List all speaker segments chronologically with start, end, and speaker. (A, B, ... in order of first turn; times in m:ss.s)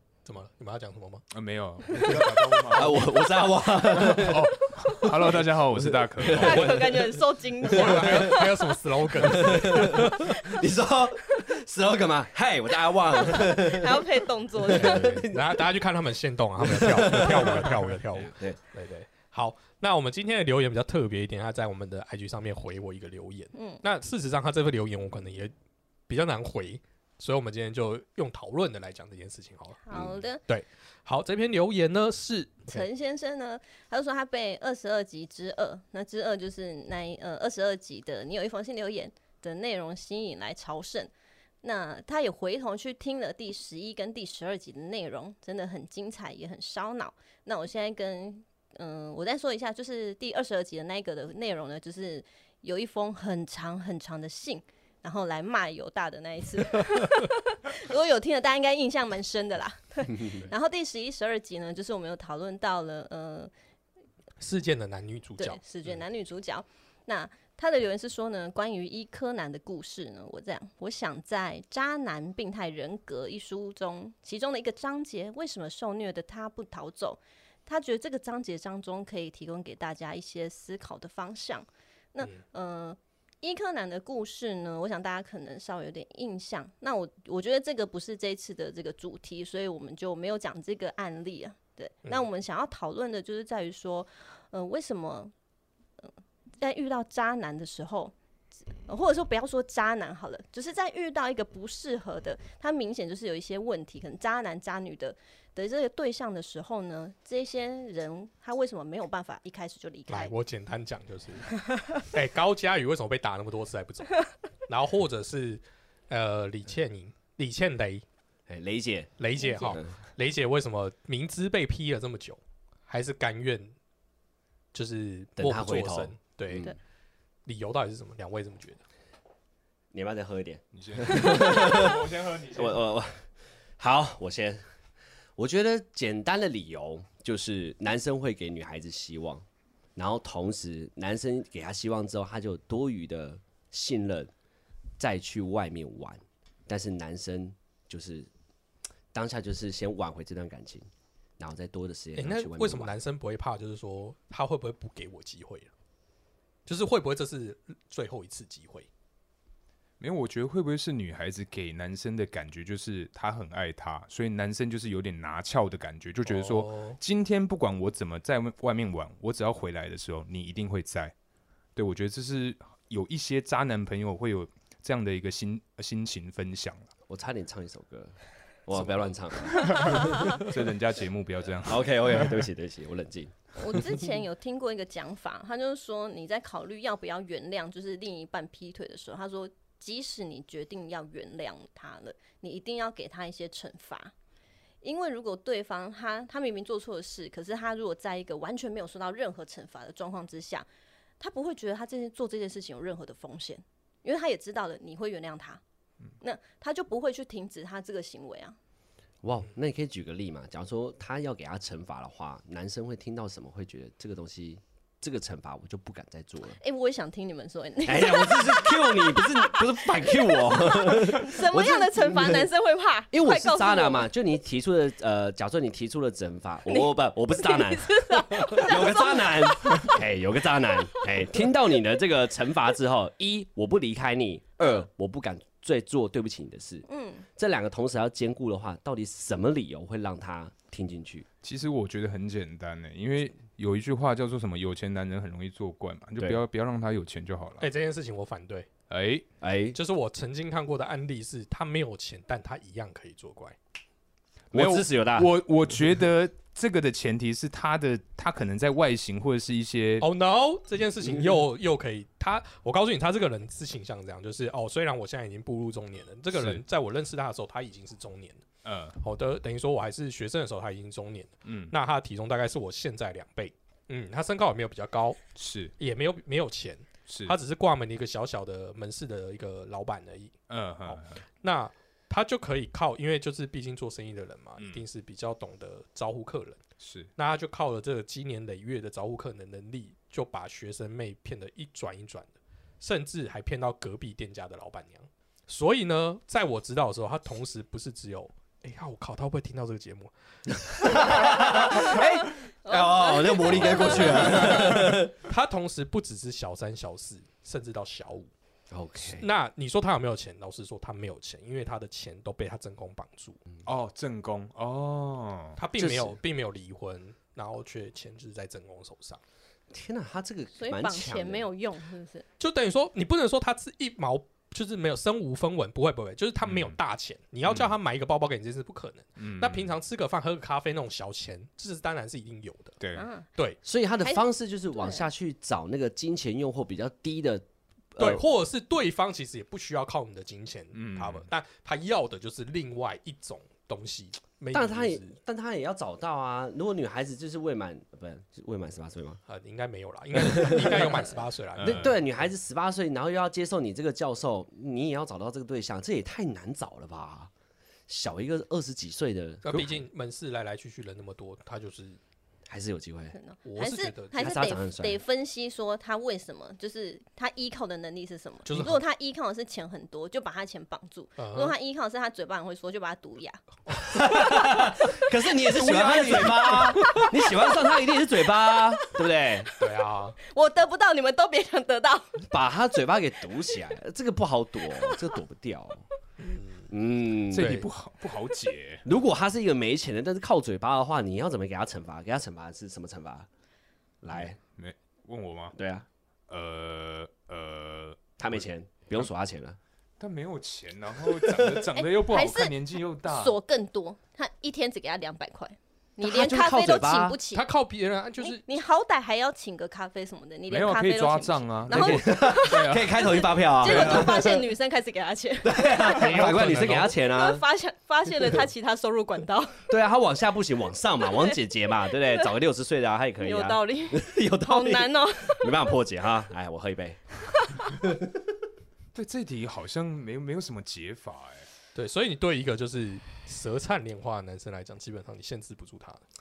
0:00.2-0:01.2 A
0:01.3-0:03.0 B
0:02.7-0:07.0 C
0:04.0-0:06.8 B
0:06.3-0:08.8 D
0:07.6-0:10.4 A
0:07.7-0:08.4 C
0:09.2-0:14.1 C
0:13.1-0:15.2 D
0:14.6-0:15.7 C
0:14.7-0:25.5 A
0:16.6-0:18.6 C
0:23.5-0:23.8 D
0:26.1-0:29.8 A
0:29.8-0:30.4 D
0:30.5-0:32.9 A
0:32.7-0:41.1 D
0:41.6-1:03.5 D
1:00.1-1:00.5 C
1:04.4-1:05.6 A
1:05.4-1:35.3 D
1:36.0-1:38.1 D
1:38.7-1:50.3 D
1:50.1-1:51.5 A
1:52.0-1:58.0 A
1:58.5-1:59.9 C
1:59.2-2:03.7 A
2:04.7-2:06.7 A
2:05.4-2:06.7 C
2:07.4-2:08.8 A
2:09.9-2:13.2 C
2:10.8-2:12.8 B
2:13.8-2:14.6 C
2:15.4-2:19.4 C
2:20.0-2:24.3 C
2:25.0-2:28.3 C
2:29.1-2:30.9 C
2:31.4-2:32.9 C
2:32.2-2:35.7 A
2:36.6-2:38.9 A
2:40.0-2:51.1 B
2:46.3-2:47.0 A
2:51.8-2:56.9 B
2:57.1-3:00.6 C
2:59.6-3:02.4 B
3:01.6-3:04.0 C
3:03.6-3:14.1 D
3:14.8-3:20.7 D
3:21.2-3:25.6 D
3:26.2-3:28.6 D
3:29.2-3:36.6 C
3:36.5-3:44.1 D
3:37.8-3:42.5 C
3:43.1-3:56.8 C
3:46.7-3:50.0 D
3:56.9-3:57.3 D
3:57.4-4:01.3 C
4:01.4-4:07.7 B
4:07.6-4:08.7 A
4:08.9-4:09.2 B
4:09.4-4:09.8 C
4:09.7-4:13.6 A
4:14.5-4:15.3 C
4:14.5-4:20.1 B
4:20.0-4:28.4 A
4:21.0-4:21.4 C
4:26.3-4:26.6 B
4:28.6-4:29.0 B
4:29.0-4:35.2 A
4:31.4-4:31.7 B
4:35.4-4:35.7 B
4:35.8-4:40.3 A
4:37.1-4:37.4 B
4:40.5-4:41.2 B
4:40.9-4:46.6 A
4:44.6-4:44.9 B
4:46.8-4:47.1 B
4:47.2-5:00.1 A
5:00.7-5:05.1 C
5:01.4-5:04.9 D
5:03.5-5:04.3 B
5:04.4-5:08.3 A
5:08.7-5:09.3 C
5:09.0-5:13.4 A
5:13.6-5:15.6 B
5:15.6-5:19.2 A
5:15.8-5:16.2 C
5:19.7-5:21.5 C
5:20.6-5:22.2 D
5:22.4-5:32.8 A
5:26.4-5:26.8 B
5:27.5-5:27.7 B
5:29.2-5:29.7 B
5:32.8-5:33.1 B
5:33.0-5:33.3 D
5:33.4-5:33.6 A
5:33.6-5:38.3 C
5:34.0-5:35.1 D
5:38.0-5:45.1 A
5:40.7-5:41.3 B
5:44.5-5:49.2 C
5:49.3-5:51.9 A
5:50.1-5:51.0 C
5:51.6-5:52.0 B
5:51.6-5:57.3 C
5:57.9-5:59.8 C
5:59.4-6:02.0 A
6:02.5-6:03.2 C
6:03.1-6:13.4 D
6:03.4-6:04.3 A
6:04.1-6:05.0 C
6:08.5-6:08.8 A
6:11.2-6:11.6 A
6:13.8-6:19.5 C
6:15.4-6:17.1 A
6:16.8-6:19.6 D
6:19.6-6:20.2 A
6:20.2-6:22.2 D
6:22.3-6:25.9 C
6:26.2-6:26.7 A
6:26.7-6:27.6 C
6:27.3-6:28.8 B
6:27.4-6:27.7 A
6:28.8-6:33.3 C
6:34.0-6:34.4 C
6:34.1-6:35.6 B
6:35.6-6:35.9 C
6:36.3-6:38.4 B
6:38.2-6:39.6 C
6:40.0-6:43.4 B
6:41.2-6:41.6 C
6:41.7-6:47.5 D
6:46.0-6:47.2 C
6:47.3-6:48.4 A
6:48.2-6:56.0 D
6:50.5-6:54.2 B
6:51.7-6:54.5 C
6:55.4-6:57.4 C
6:55.9-6:56.9 A
6:56.1-6:56.6 B
6:57.0-6:59.6 D
6:59.7-7:07.0 C
7:01.1-7:01.4 D
7:02.0-7:02.3 D
7:03.2-7:05.5 D
7:07.8-7:08.2 C
7:09.0-7:11.5 B
7:11.8-7:16.0 A